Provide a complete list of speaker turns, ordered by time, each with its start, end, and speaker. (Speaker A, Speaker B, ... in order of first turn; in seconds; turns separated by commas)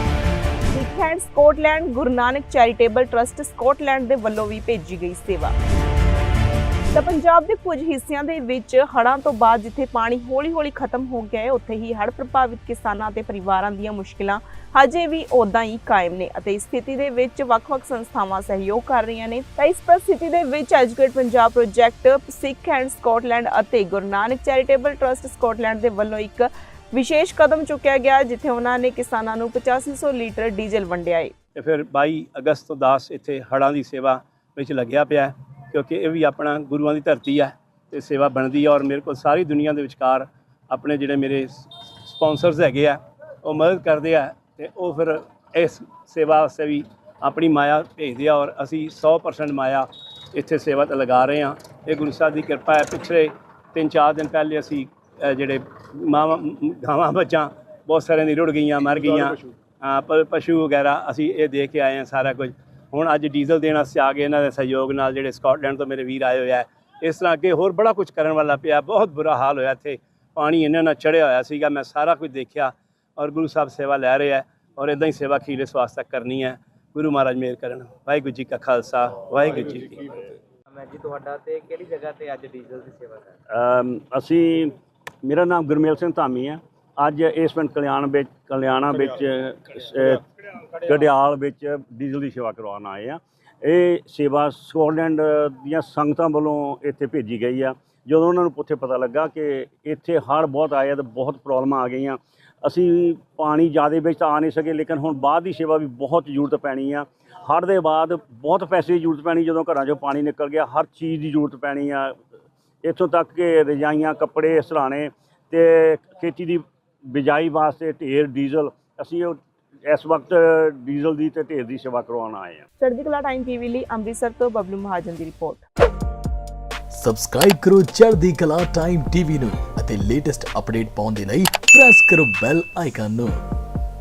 Speaker A: 0.7-5.5, Speaker A: 6.9-31.3, Speaker B: 31.6-80.1, Speaker C: 80.7-83.3, Speaker D: 83.5-90.2, Speaker D: 90.8-112.2, Speaker D: 112.8-122.6, Speaker A: 122.8-125.6, Speaker E: 126.9-133.4